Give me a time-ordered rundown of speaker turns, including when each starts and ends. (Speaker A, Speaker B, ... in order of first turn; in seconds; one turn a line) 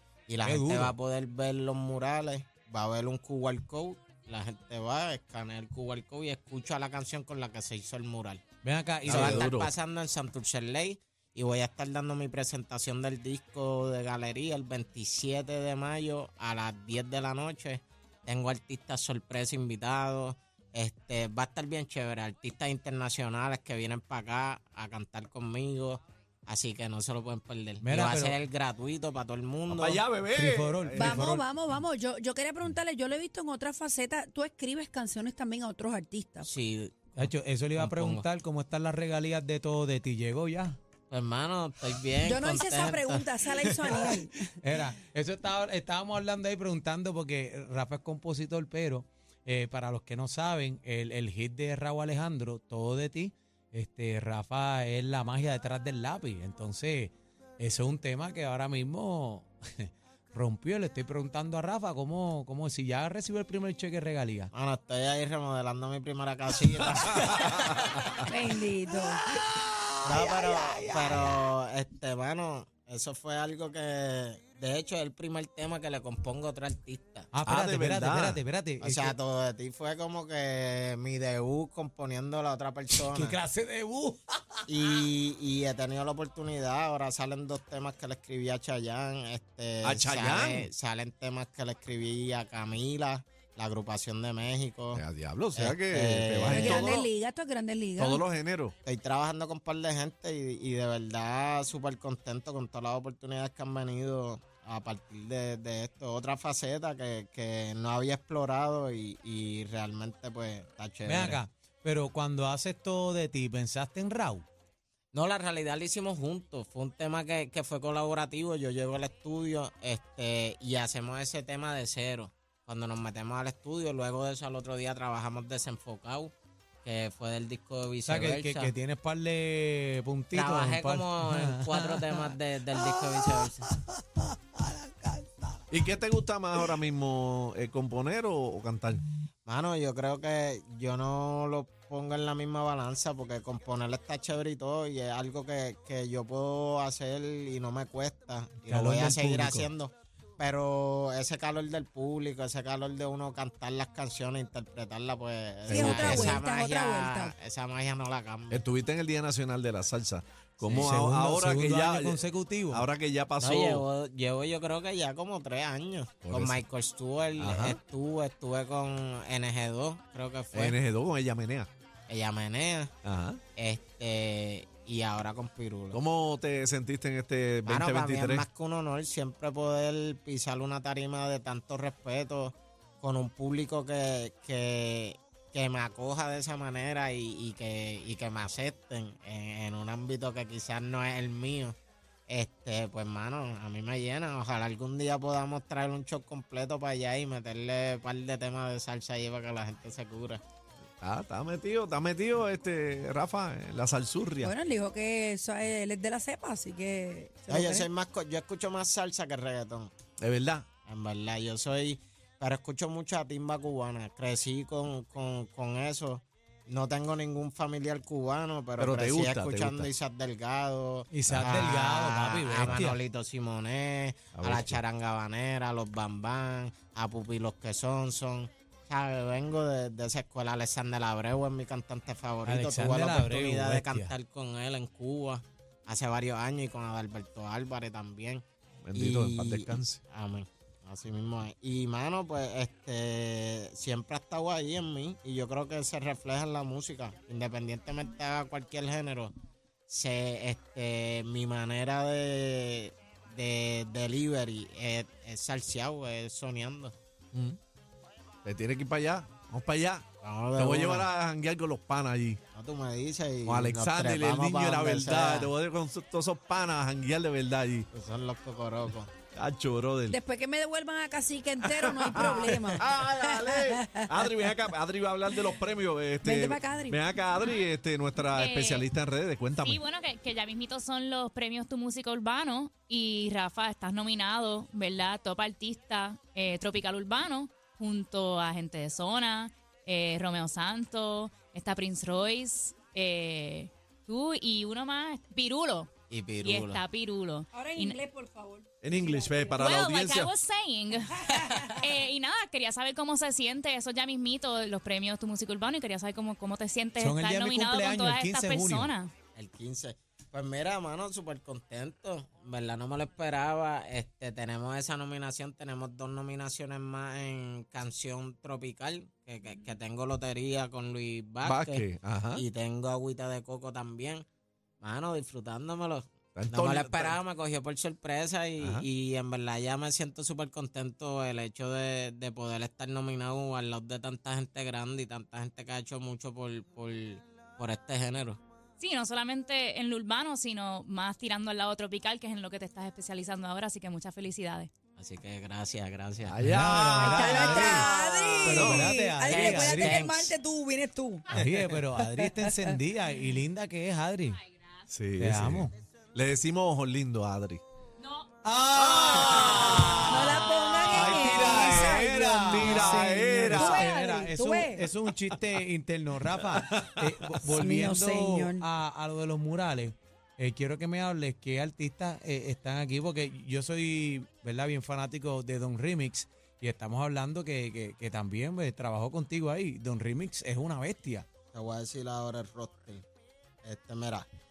Speaker A: 0.3-8.4
Speaker B: 0.4-0.9
Speaker B: 8.6-9.5
Speaker C: 9.0-9.7
Speaker A: 9.1-30.0
Speaker B: 27.8-28.4
Speaker C: 29.7-31.3
Speaker B: 30.3-31.4
Speaker D: 31.0-36.5
Speaker A: 36.4-38.2
Speaker B: 37.1-40.8
Speaker A: 41.1-44.2
Speaker D: 42.2-44.5
Speaker B: 44.6-64.5
Speaker A: 64.5-67.7
Speaker D: 68.3-69.2
Speaker B: 68.9-71.4
Speaker A: 70.0-77.3
Speaker B: 77.3-79.1
Speaker C: 77.4-78.4
Speaker A: 78.8-83.4
Speaker B: 83.0-84.7
Speaker A: 84.7-95.0
Speaker C: 89.8-90.7
Speaker C: 94.9-97.0
Speaker A: 95.5-97.0
Speaker D: 96.5-98.2
Speaker C: 98.0-98.7
Speaker A: 98.8-111.4
Speaker B: 111.0-114.4
Speaker A: 115.1-126.3
Speaker A: 126.8-128.7
Speaker B: 128.1-135.6
Speaker A: 130.3-133.7
Speaker C: 135.7-139.0
Speaker A: 139.4-158.6
Speaker B: 148.7-149.7
Speaker D: 155.7-157.3
Speaker C: 155.7-156.4
Speaker C: 158.5-162.2
Speaker A: 160.6-160.9
Speaker B: 160.7-162.8
Speaker C: 162.7-163.8
Speaker A: 163.4-170.8
Speaker C: 166.2-166.6
Speaker C: 167.4-167.8
Speaker C: 170.5-171.7
Speaker A: 172.1-172.9
Speaker C: 173.0-173.4
Speaker A: 173.6-176.0
Speaker C: 175.9-178.5
Speaker A: 177.6-191.7
Speaker A: 192.3-200.4
Speaker C: 201.0-204.5
Speaker D: 204.4-207.9
Speaker A: 207.5-209.9
Speaker C: 210.2-210.6
Speaker A: 210.9-238.4
Speaker C: 218.8-219.9
Speaker B: 221.1-223.0
Speaker C: 224.3-224.8
Speaker B: 232.4-234.1
Speaker C: 238.8-240.0
Speaker A: 238.9-249.3
Speaker A: 249.9-256.9
Speaker C: 258.4-260.0
Speaker A: 260.2-261.1
Speaker C: 260.6-262.4
Speaker A: 262.5-265.5
Speaker C: 263.4-267.9
Speaker A: 267.9-269.1
Speaker C: 269.3-270.2
Speaker D: 270.1-274.1
Speaker C: 271.6-279.8
Speaker D: 276.2-277.0
Speaker E: 278.3-278.9
Speaker E: 279.6-295.9
Speaker A: 296.1-296.8
Speaker E: 296.4-298.0
Speaker D: 297.5-299.8
Speaker C: 298.8-300.3
Speaker E: 299.6-309.1
Speaker D: 301.2-301.8
Speaker B: 307.0-308.9
Speaker A: 309.3-324.2
Speaker C: 321.4-322.4
Speaker A: 324.8-338.4
Speaker C: 326.3-327.2
Speaker C: 328.6-328.9
Speaker E: 338.8-344.7
Speaker A: 345.0-346.4
Speaker C: 346.2-348.9
Speaker B: 346.4-347.9
Speaker D: 347.0-352.8
Speaker B: 348.4-350.2
Speaker A: 349.2-350.3
Speaker B: 351.3-354.4
Speaker C: 354.9-357.6
Speaker B: 355.2-355.7
Speaker E: 358.0-358.3
Speaker B: 358.4-381.2
Speaker C: 358.7-363.9
Speaker D: 360.1-364.8
Speaker C: 366.4-367.4
Speaker D: 367.4-368.6
Speaker A: 381.5-383.0
Speaker A: 383.6-384.3